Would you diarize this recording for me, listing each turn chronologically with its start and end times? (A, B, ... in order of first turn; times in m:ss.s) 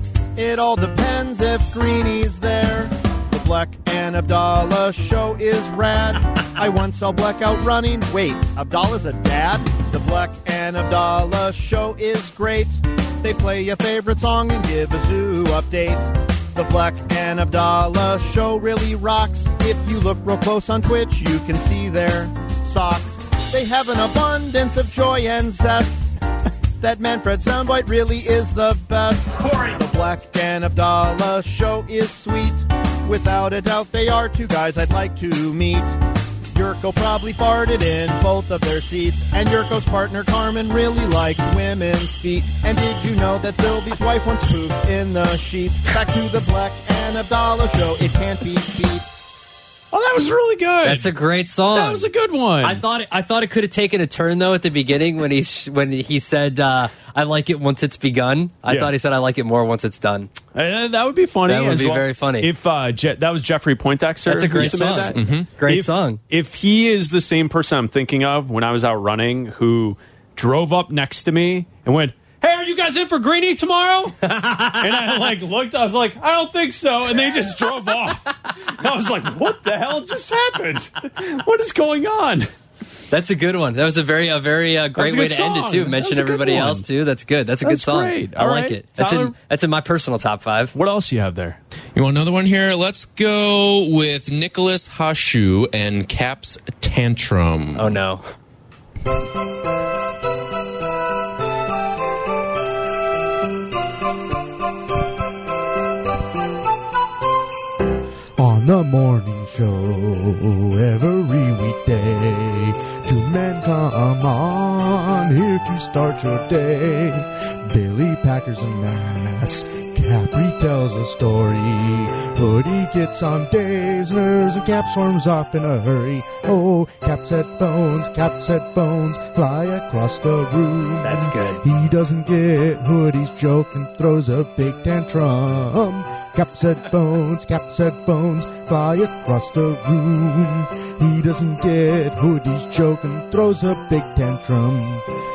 0:00.4-0:26.1 A
0:26.8-0:36.0 A
0:36.5-0:49.1 A
0:49.9-0:51.1 B
0:50.8-0:52.1 C
0:51.7-0:52.8 B
0:52.6-1:00.3 C
0:58.7-0:58.9 B
1:00.5-1:14.2 B
1:01.5-1:02.5 C
1:04.3-1:06.2 C
1:05.1-1:05.5 D
1:14.2-1:15.1 C
1:14.8-1:22.5 B
1:23.1-1:30.8 C
1:25.0-1:26.9 B
1:27.6-1:29.4 B
1:30.7-1:31.6 B
1:32.0-1:38.0 D
1:37.8-1:38.2 C
1:48.4-2:25.0 E
2:11.0-2:11.6 C